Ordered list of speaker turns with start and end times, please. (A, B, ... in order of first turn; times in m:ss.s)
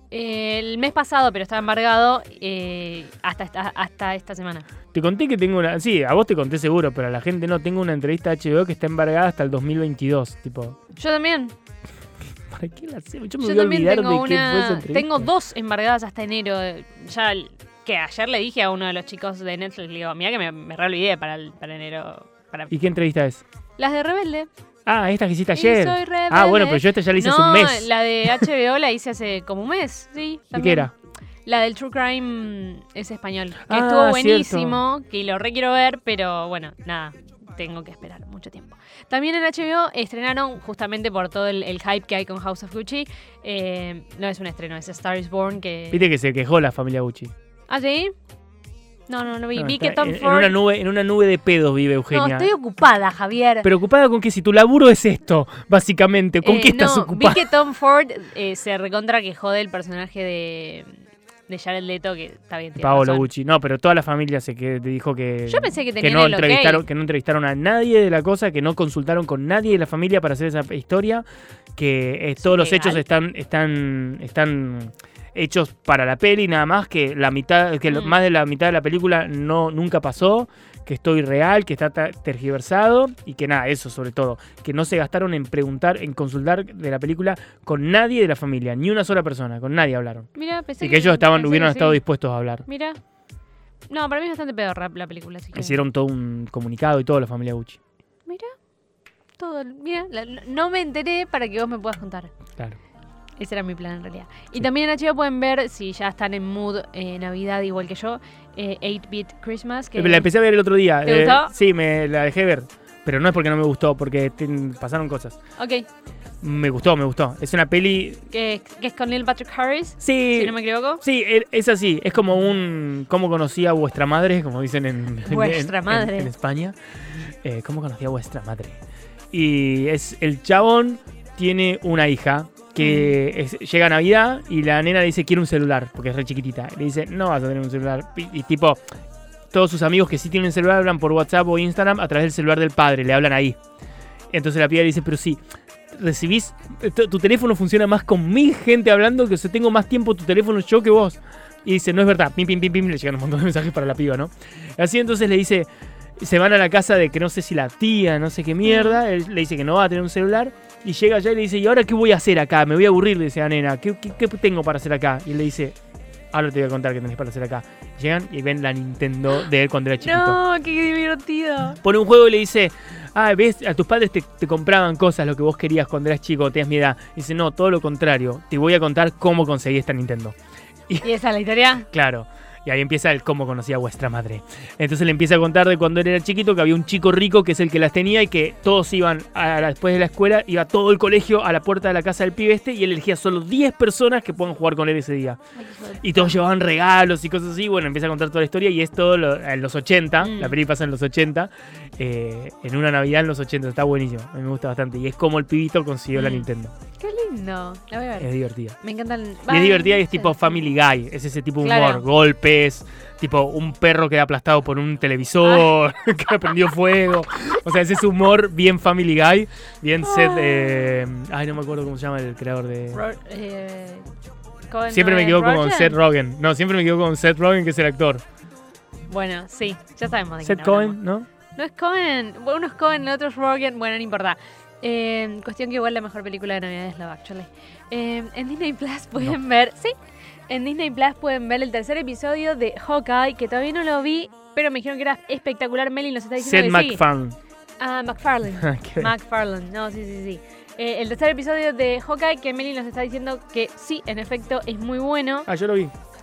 0:00.1-0:04.7 A
0:04.9-0:10.8 B
0:11.0-0:11.5 A
0:12.5-0:15.3 B
0:13.4-0:22.7 A
0:22.7-0:23.4 B
0:23.8-0:24.5 A
0:24.9-0:28.5 B
0:25.5-0:30.9 A
0:30.5-0:30.9 B
0:31.4-0:46.1 A
0:33.7-0:34.8 B
0:45.9-0:47.3 B
0:47.7-0:48.1 A
0:49.1-0:50.6 A
0:49.6-0:52.5 B
0:52.1-0:53.7 A
0:53.6-0:57.4 B
0:56.4-1:00.9 A
1:01.5-1:03.3 A
1:02.8-1:30.3 B
1:05.5-1:06.8 A
1:12.4-1:13.0 A
1:17.9-1:18.1 A
1:30.3-1:32.0 A
1:30.8-1:32.6 B
1:32.7-1:33.0 A
1:33.9-1:35.8 A
1:35.5-1:37.8 B
1:38.3-1:38.5 A
1:39.4-1:42.3 A
1:43.4-1:50.3 A
1:50.0-1:55.4 B
1:51.0-1:51.5 A
1:55.6-1:55.9 A
1:56.4-1:58.2 B
1:58.3-2:01.0 A
2:00.0-2:06.8 B
2:05.3-2:06.3 A
2:07.4-2:08.8 B
2:09.3-2:18.8 B
2:12.8-2:13.1 A
2:19.5-2:23.6 B
2:24.3-2:25.4 B
2:25.9-2:45.8 B
2:38.6-2:39.0 A
2:46.3-2:50.4 B
2:50.0-2:51.8 A
2:51.8-3:00.4 B
3:01.0-3:01.9 A
3:01.9-3:15.4 B
3:15.6-3:16.4 A
3:16.0-3:26.7 B
3:20.2-3:20.6 A
3:26.1-3:26.5 A
3:27.0-3:28.3 A
3:28.2-3:28.8 B
3:28.8-3:30.6 A
3:29.5-3:43.0 B
3:31.6-3:32.0 A
3:35.4-3:35.7 A
3:40.0-3:41.0 A
3:42.9-3:44.1 A
3:44.7-3:46.0 A
3:44.9-3:48.2 B
3:49.1-3:51.0 A
3:50.4-3:51.3 B
3:51.6-4:00.0 A
4:00.5-4:07.0 A
4:06.4-4:07.4 B
4:07.8-4:15.5 A
4:08.6-4:09.1 B
4:15.5-4:15.9 B